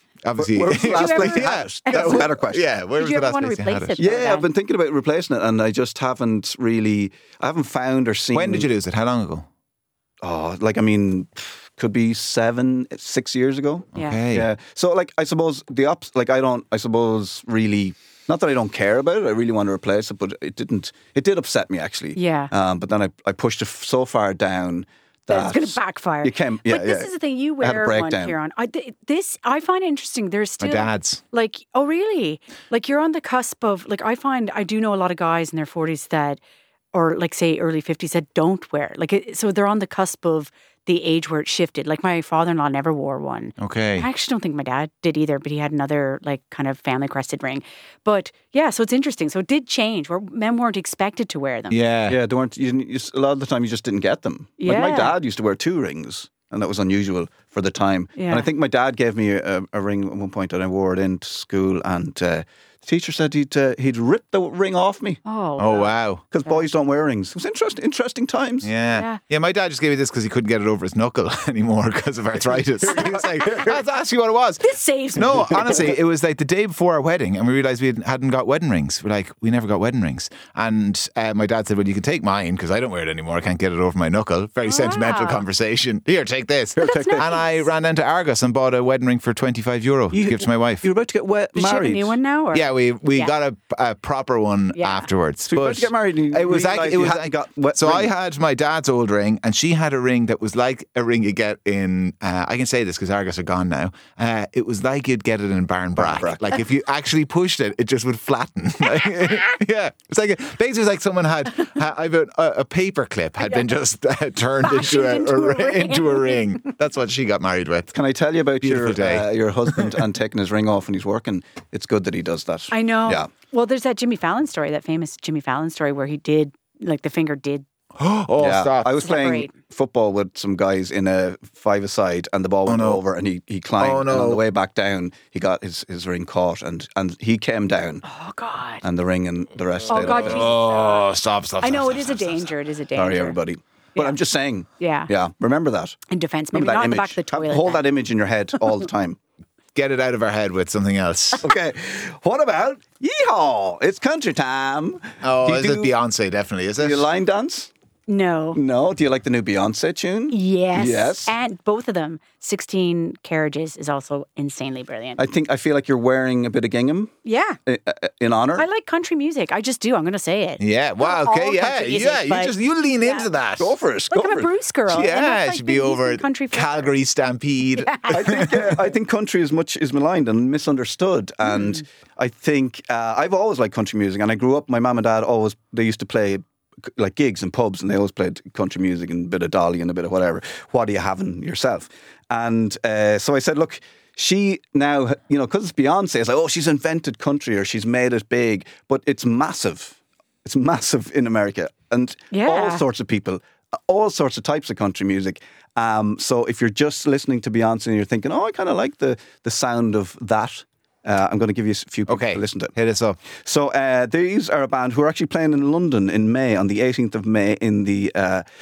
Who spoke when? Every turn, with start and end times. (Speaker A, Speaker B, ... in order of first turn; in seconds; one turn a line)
Speaker A: 0.2-4.0
Speaker B: 0.4-2.6
Speaker C: 0.8-2.3
Speaker C: 3.0-4.5
Speaker B: 4.0-8.7
Speaker A: 8.3-9.5
Speaker B: 10.2-28.4
Speaker A: 13.9-14.5
Speaker C: 22.2-22.5
Speaker C: 25.3-36.4
Speaker A: 30.6-31.2
Speaker C: 36.9-51.8
Speaker A: 43.6-44.1
Speaker A: 51.7-52.2
Speaker B: 52.1-65.2
Speaker C: 54.6-55.1
Speaker C: 58.2-58.5
Speaker C: 65.2-65.9
Speaker A: 65.6-66.2
Speaker B: 66.3-68.7
Speaker A: 68.6-90.9
Speaker C: 68.9-69.2
Speaker C: 73.2-73.7
Speaker C: 74.6-75.9
Speaker C: 84.7-85.4
Speaker B: 86.8-87.3
Speaker C: 86.8-87.5
Speaker B: 90.1-92.2
Speaker C: 91.5-93.3
Speaker A: 92.5-117.9
Speaker C: 94.8-95.1
Speaker B: 95.5-98.1
Speaker B: 106.0-106.6
Speaker C: 114.6-116.5
Speaker B: 117.9-123.3
Speaker A: 118.6-120.0
Speaker C: 122.7-127.7
Speaker A: 128.0-129.0
Speaker B: 128.4-138.0
Speaker C: 129.0-129.5
Speaker A: 132.7-133.0
Speaker A: 133.8-134.4
Speaker C: 138.0-138.8
Speaker B: 138.8-140.5
Speaker C: 139.9-141.1
Speaker A: 139.9-142.5
Speaker C: 141.6-143.4
Speaker B: 143.0-146.0
Speaker C: 144.8-145.1
Speaker C: 146.1-147.8
Speaker B: 146.5-149.2
Speaker A: 149.8-151.5
Speaker B: 151.4-155.9
Speaker A: 155.2-157.1
Speaker B: 156.8-157.7
Speaker C: 158.1-158.6
Speaker B: 158.5-161.3
Speaker C: 160.3-165.2
Speaker B: 165.2-167.1
Speaker C: 167.2-167.6
Speaker B: 167.7-168.7
Speaker C: 168.6-173.3
Speaker A: 170.6-173.7
Speaker B: 173.6-174.5
Speaker C: 174.1-176.9
Speaker A: 174.9-178.8
Speaker C: 177.8-178.4
Speaker B: 178.1-212.7
Speaker C: 202.3-202.8
Speaker A: 212.1-213.2
Speaker B: 213.4-218.5